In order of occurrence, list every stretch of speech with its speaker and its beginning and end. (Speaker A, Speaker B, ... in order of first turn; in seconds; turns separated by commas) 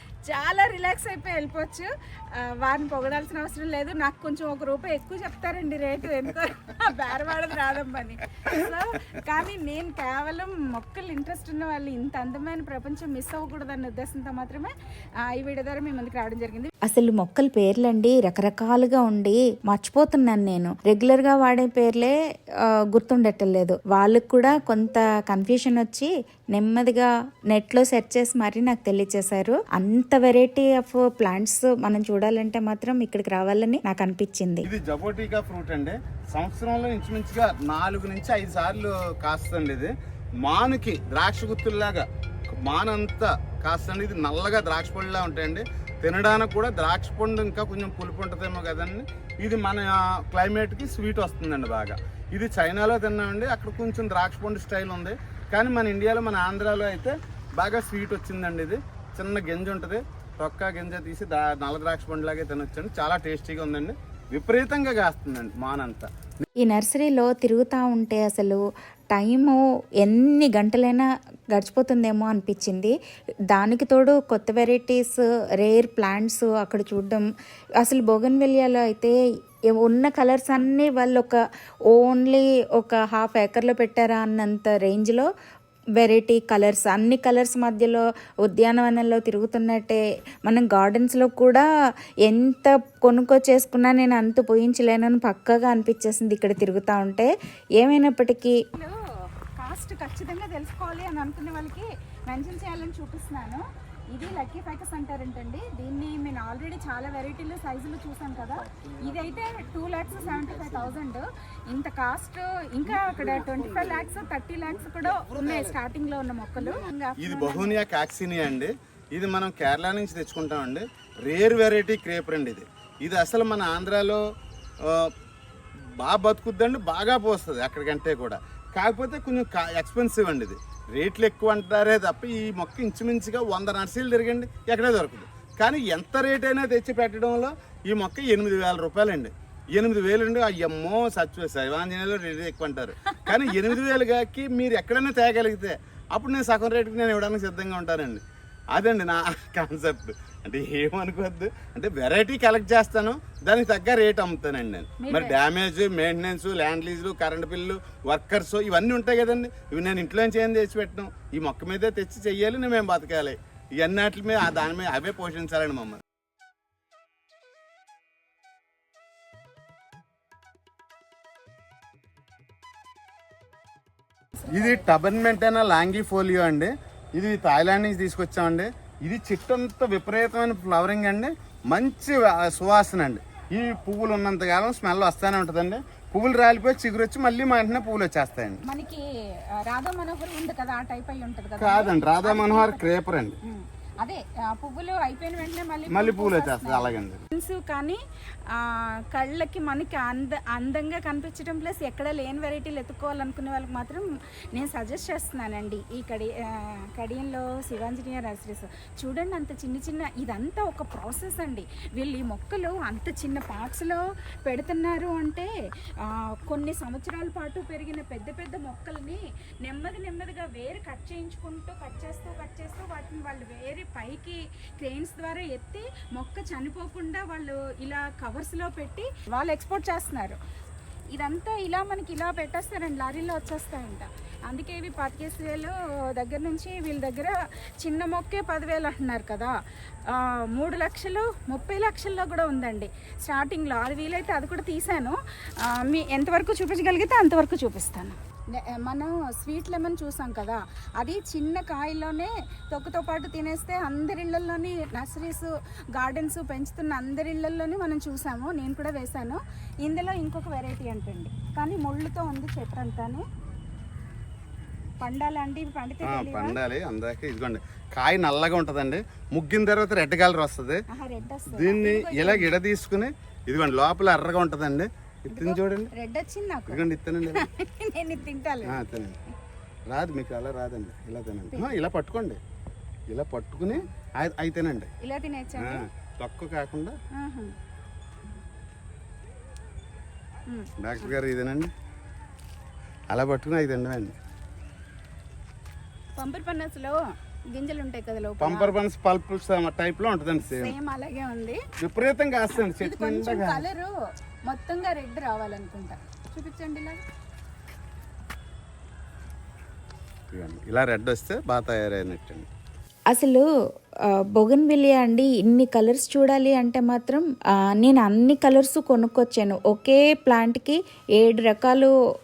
Speaker A: 0.3-14.7, Speaker A: 15.3-16.7, Speaker B: 16.8-34.7, Speaker C: 34.6-66.1, Speaker B: 66.6-68.6, Speaker B: 69.1-73.0, Speaker B: 73.5-77.3, Speaker B: 77.8-79.1, Speaker B: 79.7-81.4, Speaker B: 81.9-85.3, Speaker B: 86.0-91.7, Speaker B: 92.3-98.6, Speaker A: 99.6-117.9, Speaker C: 108.6-111.0, Speaker C: 112.9-115.8, Speaker C: 116.6-124.2, Speaker C: 124.8-125.1, Speaker C: 126.0-148.2, Speaker C: 148.7-166.0, Speaker A: 155.0-155.3, Speaker A: 174.4-174.7, Speaker C: 174.5-188.6, Speaker A: 188.6-189.0, Speaker A: 189.7-192.8, Speaker C: 191.6-193.4, Speaker A: 193.4-198.0, Speaker C: 195.9-197.2, Speaker A: 198.5-215.5, Speaker A: 216.0-230.4, Speaker A: 231.1-239.5, Speaker A: 240.1-263.2, Speaker A: 265.0-266.6, Speaker C: 266.1-270.8, Speaker A: 270.9-272.5, Speaker C: 271.5-275.9, Speaker A: 275.3-278.8, Speaker C: 276.7-277.5, Speaker C: 278.7-279.2, Speaker C: 279.9-282.4, Speaker A: 281.5-281.8, Speaker C: 283.1-284.9, Speaker A: 285.0-285.8, Speaker C: 285.6-286.9, Speaker A: 287.1-287.5, Speaker A: 290.5-291.1, Speaker C: 290.8-291.7, Speaker C: 293.1-294.2, Speaker A: 296.2-297.0, Speaker A: 297.5-298.7, Speaker C: 298.4-300.8, Speaker A: 300.5-301.6, Speaker C: 301.8-303.7, Speaker A: 302.7-303.9, Speaker A: 304.5-307.0, Speaker C: 310.3-312.5, Speaker B: 313.1-313.5, Speaker B: 314.1-321.9